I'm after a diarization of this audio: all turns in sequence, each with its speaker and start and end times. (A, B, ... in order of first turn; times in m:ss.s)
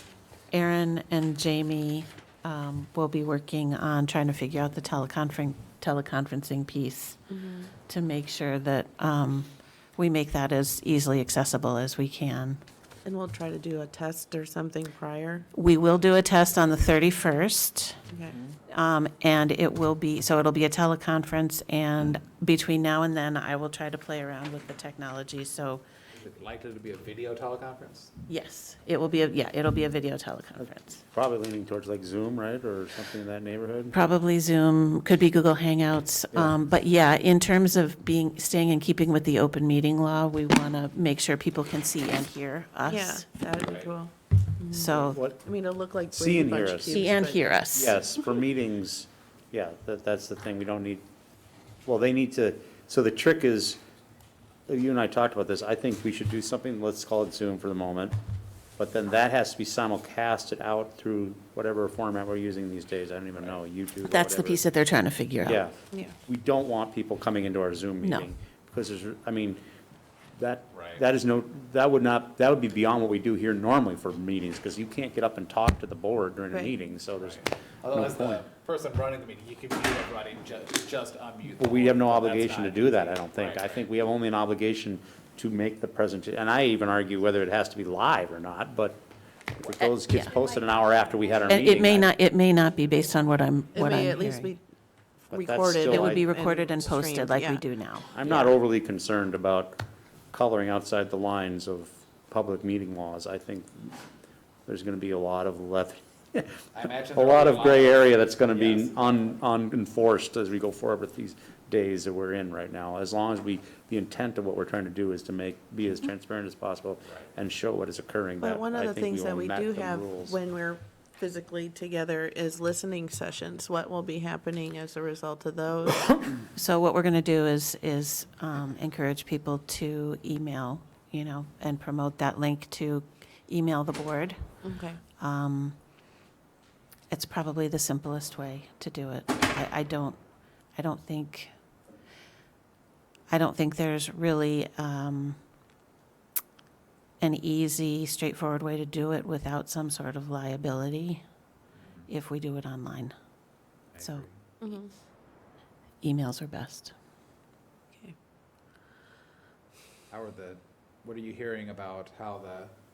0:00.5-0:07.2 A
0:07.3-0:07.7 B
0:07.9-0:12.6 A
0:13.0-0:15.4 B
0:15.5-0:18.0 A
0:18.1-0:18.4 B
0:18.7-0:25.8 A
0:26.1-0:28.1 C
0:28.3-0:31.0 A
0:30.6-0:33.9 D
0:33.9-0:43.2 A
0:42.9-0:47.4 B
0:43.5-0:43.9 C
0:44.7-0:45.2 A
0:44.9-0:45.4 D
0:46.1-0:47.2 D
0:46.9-0:48.0 A
0:47.7-0:51.0 D
0:51.8-0:53.8 D
0:54.7-0:58.2 D
0:58.8-1:04.6 D
1:04.0-1:05.6 A
1:05.4-1:09.6 D
1:08.0-1:08.3 A
1:10.3-1:18.4 D
1:10.7-1:11.0 C
1:17.2-1:23.9 C
1:21.6-1:29.0 D
1:29.5-1:32.1 D
1:29.8-1:30.3 A
1:31.5-1:34.5 A
1:33.7-1:34.6 B
1:35.3-1:37.6 B
1:35.3-1:36.2 D
1:35.9-1:38.5 A
1:38.1-1:44.0 D
1:44.6-2:00.4 D
1:46.7-1:49.4 C
1:58.4-2:06.2 B
2:06.5-2:14.6 A
2:14.6-2:15.0 B
2:15.2-2:15.8 A
2:17.1-2:20.2 A
2:20.7-2:21.5 A
2:23.3-2:25.4 A
2:27.2-2:31.2 A
2:31.7-2:32.1 C
2:32.1-2:33.1 A
2:33.9-2:34.4 C
2:34.0-2:34.2 A
2:34.6-2:34.9 B
2:36.0-2:36.9 A
2:40.1-2:42.7 C